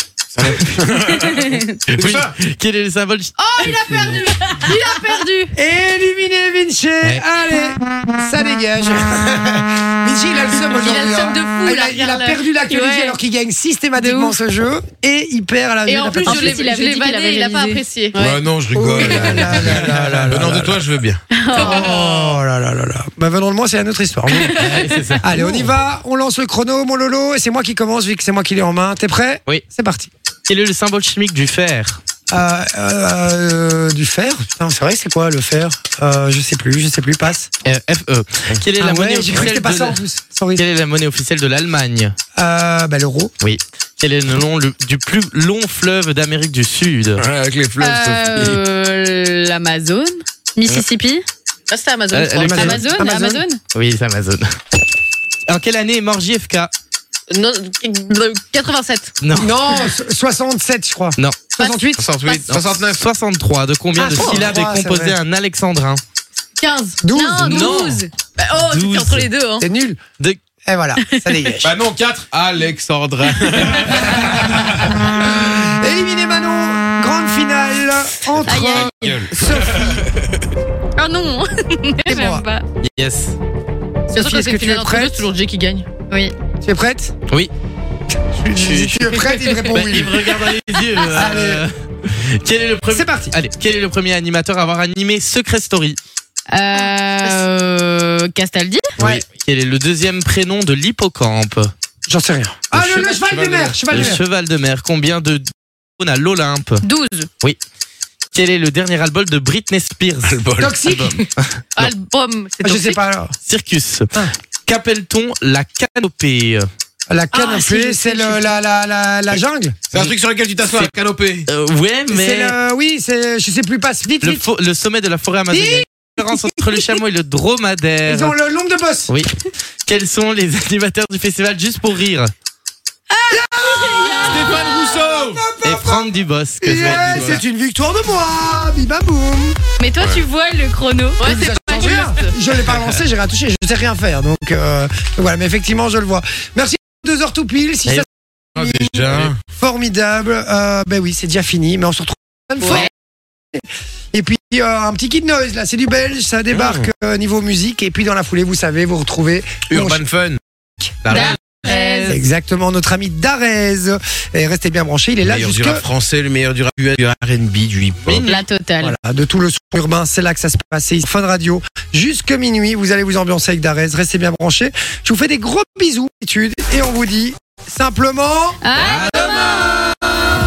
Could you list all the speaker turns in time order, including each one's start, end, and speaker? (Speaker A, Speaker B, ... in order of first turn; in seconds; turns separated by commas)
Speaker A: 0.3-2.3, Speaker B: 1.2-1.8, Speaker C: 1.9-4.2, Speaker D: 3.5-5.5, Speaker B: 3.5-5.4, Speaker E: 5.5-16.6, Speaker D: 10.7-12.4, Speaker B: 12.7-13.2, Speaker B: 14.0-14.3, Speaker D: 15.9-18.2, Speaker B: 16.2-18.4, Speaker A: 18.1-21.2, Speaker E: 18.7-20.8, Speaker D: 19.1-19.5, Speaker C: 19.6-20.7, Speaker B: 21.3-22.0, Speaker D: 21.5-22.4, Speaker E: 21.5-24.7, Speaker B: 24.3-25.2, Speaker C: 24.5-25.7, Speaker E: 25.2-30.1, Speaker C: 30.5-32.0, Speaker E: 32.3-37.5, Speaker C: 37.6-40.0, Speaker E: 38.8-40.6, Speaker C: 40.5-42.1, Speaker E: 42.4-43.3, Speaker C: 43.4-47.2, Speaker A: 47.2-48.6, Speaker B: 47.8-51.2, Speaker D: 51.7-52.8, Speaker C: 52.1-52.8, Speaker E: 52.4-53.4, Speaker B: 52.5-53.6, Speaker C: 53.7-54.4, Speaker C: 55.5-56.7, Speaker D: 57.3-59.1, Speaker C: 59.2-59.5, Speaker E: 59.3-62.1, Speaker C: 61.2-61.5, Speaker D: 61.6-62.5, Speaker A: 62.0-63.0, Speaker C: 62.5-66.0, Speaker E: 64.0-65.2, Speaker D: 66.6-69.7, Speaker E: 67.0-67.9, Speaker C: 67.4-68.0, Speaker C: 68.5-69.3, Speaker E: 69.6-70.0, Speaker E: 70.6-71.7, Speaker B: 71.0-71.5, Speaker A: 71.6-75.1, Speaker E: 74.8-80.0, Speaker A: 78.3-80.5, Speaker B: 78.5-79.2, Speaker B: 81.0-82.6, Speaker E: 82.0-82.4, Speaker C: 82.8-83.3, Speaker D: 84.1-85.9, Speaker E: 84.1-85.2, Speaker E: 86.6-87.1, Speaker E: 88.3-90.5, Speaker C: 88.5-96.0, Speaker E: 91.1-91.6, Speaker E: 92.9-93.3, Speaker B: 96.5-98.9, Speaker D: 96.8-97.4, Speaker C: 99.0-101.7, Speaker E: 102.0-104.2, Speaker A: 102.7-104.1, Speaker C: 102.8-103.3, Speaker C: 103.8-105.5, Speaker C: 106.0-106.8, Speaker B: 106.8-107.3, Speaker C: 108.3-111.9, Speaker A: 110.2-110.8, Speaker E: 110.6-111.2, Speaker D: 111.8-113.0, Speaker E: 112.6-113.3, Speaker C: 113.5-114.1, Speaker C: 114.7-116.7, Speaker E: 117.1-119.8, Speaker B: 117.4-118.3, Speaker D: 117.4-118.2, Speaker A: 119.9-121.5, Speaker C: 121.5-122.5, Speaker E: 122.1-124.4, Speaker C: 124.2-128.3, Speaker E: 125.5-126.9, Speaker E: 128.1-129.1, Speaker C: 129.9-132.3, Speaker B: 133.1-134.8, Speaker E: 133.3-139.6, Speaker A: 134.2-135.5, Speaker C: 135.6-137.4, Speaker A: 136.6-137.4, Speaker B: 139.8-141.3, Speaker D: 141.2-142.3, Speaker E: 141.2-152.9, Speaker A: 148.6-149.4, Speaker B: 152.6-152.9, Speaker E: 153.5-160.0, Speaker A: 156.5-156.9, Speaker A: 159.7-160.4, Speaker A: 161.0-161.4, Speaker B: 161.1-162.2, Speaker C: 161.2-162.1, Speaker E: 161.7-165.8, Speaker A: 165.2-168.3, Speaker C: 168.1-168.3, Speaker B: 168.2-168.9, Speaker E: 168.8-178.6, Speaker B: 178.6-179.6, Speaker A: 178.9-179.7